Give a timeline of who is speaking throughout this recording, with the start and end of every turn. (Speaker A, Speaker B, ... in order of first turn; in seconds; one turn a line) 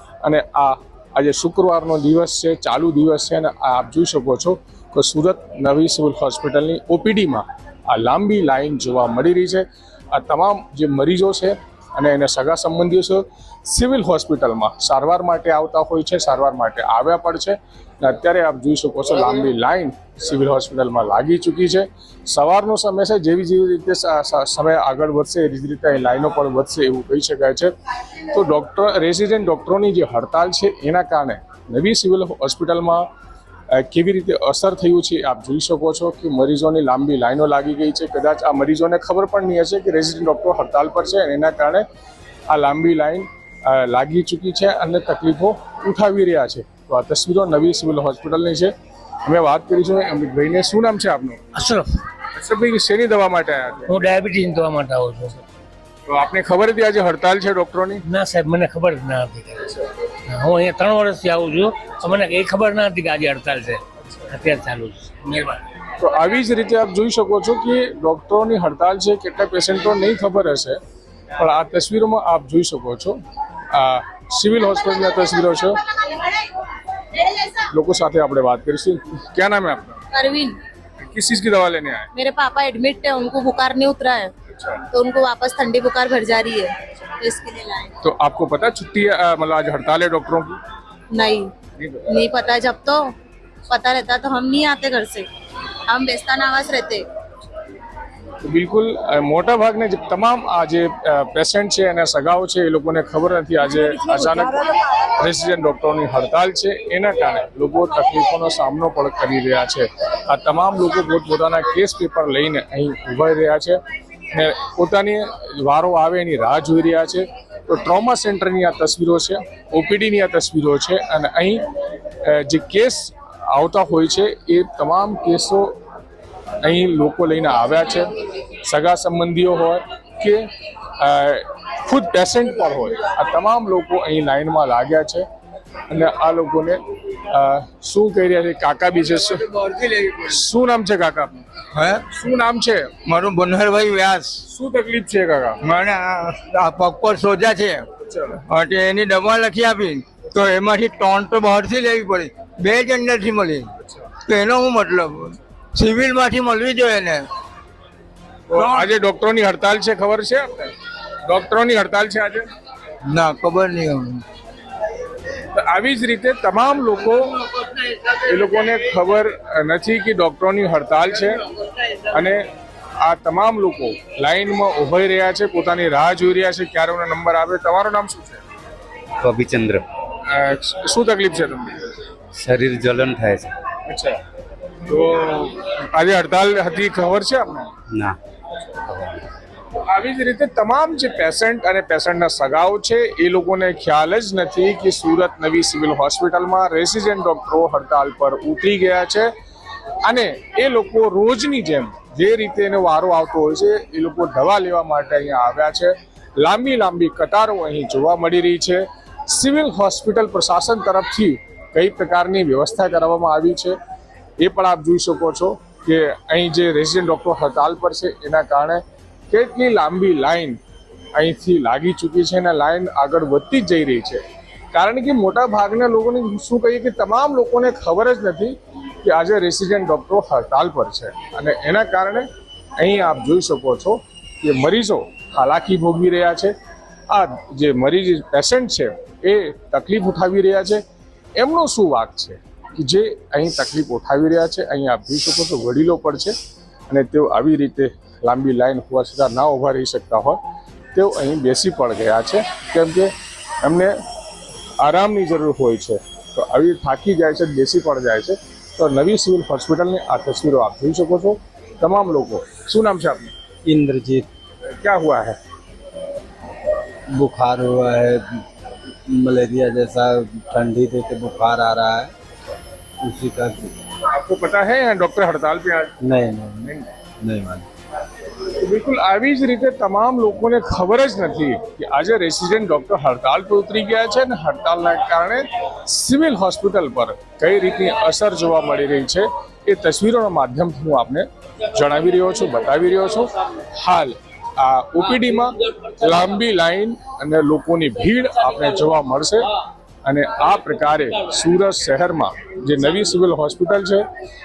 Speaker A: 0.2-27.7
Speaker A: 28.3-33.1
Speaker A: 33.7-41.8
Speaker A: 42.5-48.7
Speaker A: 49.2-51.4
Speaker B: 51.5-52.0
Speaker A: 52.3-54.0
Speaker B: 53.9-55.4
Speaker A: 56.1-58.0
Speaker B: 58.0-65.6
Speaker A: 66.0-70.8
Speaker A: 71.3-73.2
Speaker A: 73.7-75.8
Speaker A: 77.6-80.0
Speaker C: 80.1-80.6
Speaker A: 81.0-82.1
Speaker C: 82.1-84.3
Speaker A: 84.5-84.8
Speaker C: 84.9-87.9
Speaker A: 88.0-90.6
Speaker C: 91.1-91.5
Speaker A: 91.8-92.1
Speaker C: 92.1-93.1
Speaker C: 93.7-95.3
Speaker C: 95.9-97.0
Speaker A: 98.4-113.8
Speaker A: 114.3-121.6
Speaker A: 122.2-125.8
Speaker A: 126.6-135.2
Speaker A: 135.9-139.5
Speaker D: 139.5-140.2
Speaker A: 140.1-141.5
Speaker D: 141.7-142.0
Speaker A: 142.0-142.9
Speaker D: 143.0-144.4
Speaker A: 144.4-145.6
Speaker D: 145.6-147.9
Speaker A: 148.0-148.4
Speaker D: 148.4-153.7
Speaker D: 154.2-157.3
Speaker A: 158.5-162.5
Speaker D: 158.6-158.9
Speaker D: 163.0-164.2
Speaker A: 165.4-171.4
Speaker A: 171.9-172.5
Speaker A: 173.0-178.4
Speaker E: 179.2-179.8
Speaker A: 180.2-181.9
Speaker E: 182.3-183.5
Speaker A: 183.9-184.2
Speaker A: 184.8-187.7
Speaker E: 187.9-188.2
Speaker E: 188.9-189.2
Speaker A: 189.7-199.3
Speaker A: 200.0-213.8
Speaker A: 214.4-220.6
Speaker A: 221.1-232.3
Speaker A: 232.8-236.5
Speaker A: 237.1-240.8
Speaker A: 241.4-246.3
Speaker A: 246.9-250.4
Speaker A: 250.9-253.9
Speaker A: 254.8-263.3
Speaker F: 263.6-264.3
Speaker A: 264.7-265.4
Speaker F: 267.1-268.4
Speaker F: 269.1-272.1
Speaker F: 273.0-273.7
Speaker A: 274.1-275.9
Speaker F: 276.0-277.6
Speaker A: 278.4-299.5
Speaker A: 300.0-304.1